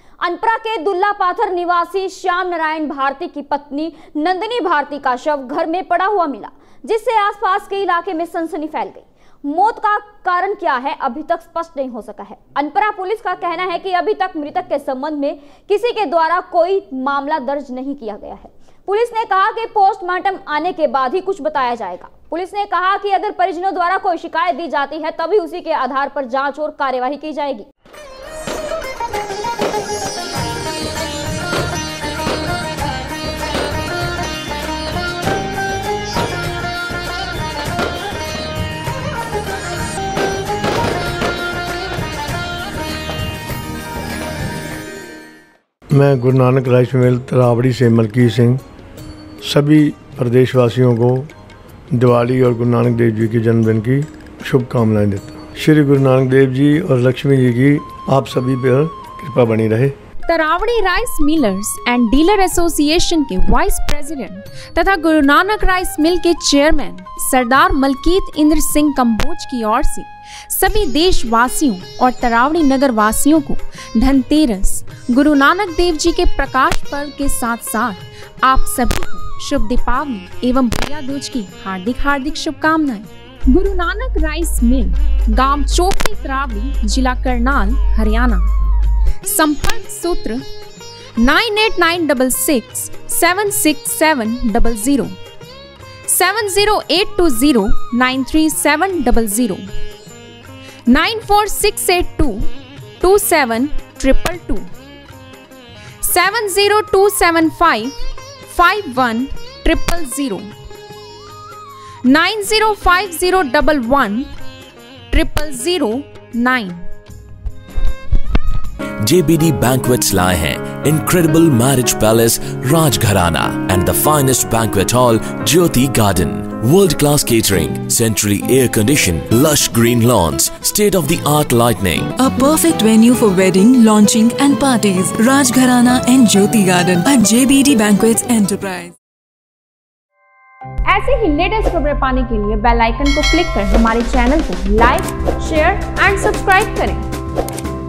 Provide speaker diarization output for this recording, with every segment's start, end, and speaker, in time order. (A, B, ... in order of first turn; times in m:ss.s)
0:00.2-0:27.7 A
0:45.9-0:48.6 B
0:49.4-0:51.3 B
0:51.9-1:00.0 B
1:00.3-1:28.5 C
1:29.2-1:30.4 C
1:31.2-1:35.2 C
1:36.1-1:39.7 C
1:40.9-1:42.5 C
1:43.0-1:44.7 C
1:46.0-1:47.9 C
1:48.5-1:50.5 C
1:52.0-1:54.3 C
1:55.1-1:56.9 C
1:59.0-2:12.1 D
2:12.2-2:18.9 E
2:20.9-2:27.0 C